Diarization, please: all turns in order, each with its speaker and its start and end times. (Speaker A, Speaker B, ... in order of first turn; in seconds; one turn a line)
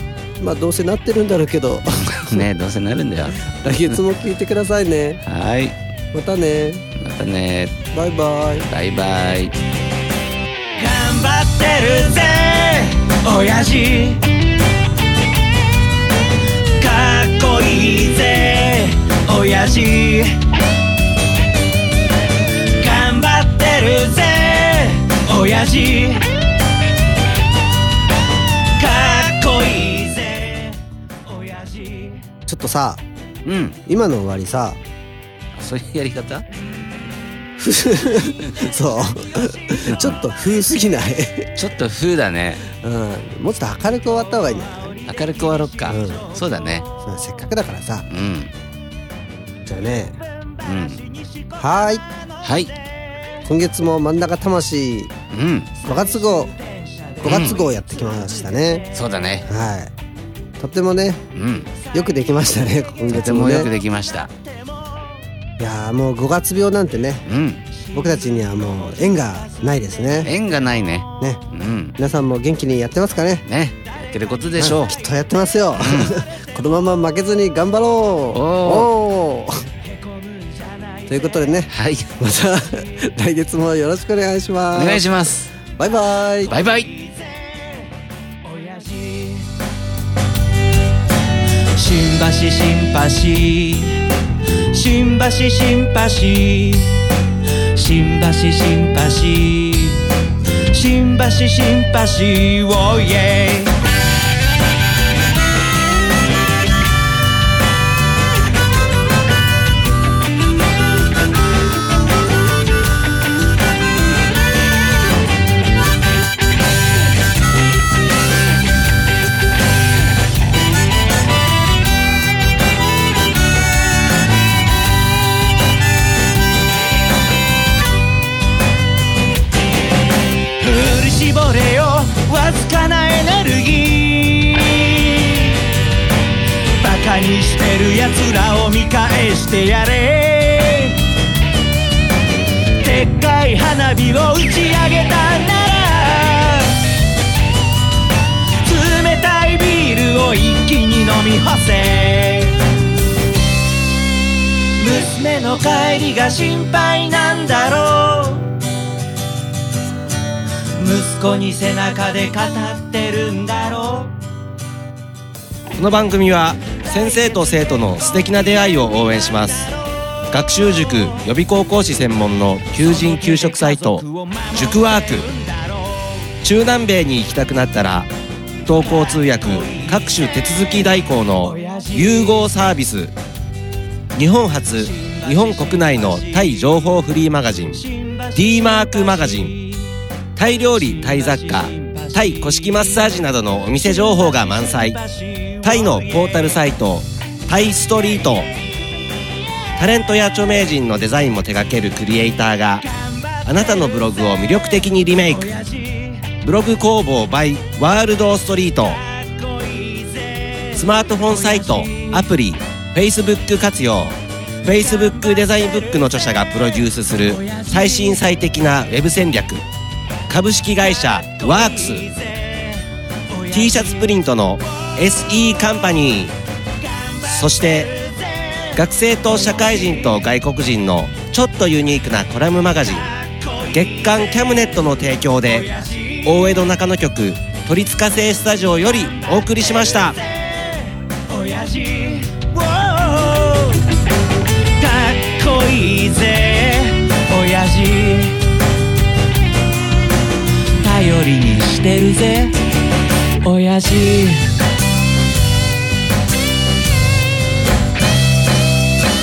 Speaker A: 0.4-2.4
Speaker B: 2.0-4.0
Speaker A: 3.4-5.2
Speaker B: 5.2-5.8
Speaker A: 6.1-6.9
Speaker B: 7.0-7.8
Speaker A: 7.9-8.7
Speaker B: 8.7-9.6
Speaker C: 10.8-14.3
Speaker C: 16.8-20.4
Speaker C: 22.5-26.3
Speaker C: 28.8-32.2
Speaker A: 32.5-33.0
Speaker B: 33.5-33.8
Speaker A: 33.9-34.8
Speaker B: 35.6-36.5
Speaker A: 37.6-41.5
Speaker B: 39.9-40.2
Speaker B: 41.5-42.6
Speaker A: 42.7-45.0
Speaker B: 45.0-46.9
Speaker A: 45.9-46.3
Speaker A: 47.0-48.1
Speaker B: 48.1-48.5
Speaker A: 49.7-50.2
Speaker B: 50.6-51.0
Speaker A: 51.6-52.0
Speaker B: 52.4-52.7
Speaker A: 53.4-55.1
Speaker B: 55.3-55.7
Speaker A: 55.8-56.5
Speaker A: 57.2-58.9
Speaker B: 57.2-57.6
Speaker B: 58.9-59.5
Speaker A: 59.5-59.9
Speaker A: 60.6-61.2
Speaker B: 61.3-61.7
Speaker A: 61.8-63.7
Speaker B: 63.1-64.3
Speaker A: 65.6-67.2
Speaker B: 67.3-67.6
Speaker A: 67.9-70.3
Speaker B: 70.2-72.0
Speaker A: 72.0-73.4
Speaker B: 73.5-75.0
Speaker A: 74.6-79.7
Speaker B: 75.8-76.2
Speaker B: 78.3-78.9
Speaker C: 80.2-80.6
Speaker A: 81.1-85.1
Speaker B: 81.7-82.1
Speaker B: 84.7-85.6
Speaker A: 85.7-86.5
Speaker B: 86.5-86.9
Speaker C: 88.4-89.5
Speaker C: 91.8-94.0
Speaker C: 94.7-97.0
Speaker C: 97.7-100.0
Speaker C: 100.7-103.7
Speaker C: 130.6-135.6
Speaker C: 136.7-141.0
Speaker C: 142.8-146.8
Speaker C: 148.6-152.6
Speaker C: 154.8-158.5
Speaker C: 160.8-164.1
Speaker D: 165.8-169.7
Speaker D: 170.3-174.0
Speaker C: 170.6-171.1
Speaker C: 172.7-176.1
Speaker D: 174.6-175.2
Speaker D: 176.4-178.0
Speaker D: 178.7-181.2
Speaker C: 178.7-180.3
Speaker C: 181.4-182.5
Speaker D: 181.9-183.1
Speaker D: 184.2-184.5
Speaker C: 184.8-186.8
Speaker D: 185.3-187.6
Speaker C: 187.7-189.9
Speaker D: 188.4-189.5
Speaker D: 190.4-194.9
Speaker C: 190.7-193.0
Speaker C: 193.8-196.6
Speaker D: 195.6-198.5
Speaker D: 199.8-202.8
Speaker C: 202.8-204.1
Speaker D: 203.5-205.2
Speaker C: 205.3-206.3
Speaker D: 206.4-208.9
Speaker C: 208.9-212.3
Speaker D: 210.8-214.1
Speaker D: 214.7-219.6
Speaker C: 217.3-218.2
Speaker D: 220.3-222.0
Speaker C: 221.4-222.9
Speaker C: 223.4-224.1
Speaker D: 223.5-224.6
Speaker D: 225.3-226.3
Speaker D: 227.4-227.7
Speaker C: 227.8-228.8
Speaker D: 228.8-232.5
Speaker C: 229.4-230.1
Speaker C: 233.5-234.4
Speaker D: 233.8-234.8
Speaker C: 235.5-236.5
Speaker D: 236.3-237.2
Speaker D: 237.7-238.6
Speaker C: 239.9-243.8
Speaker C: 244.8-248.4
Speaker C: 250.8-252.6
Speaker C: 253.4-254.5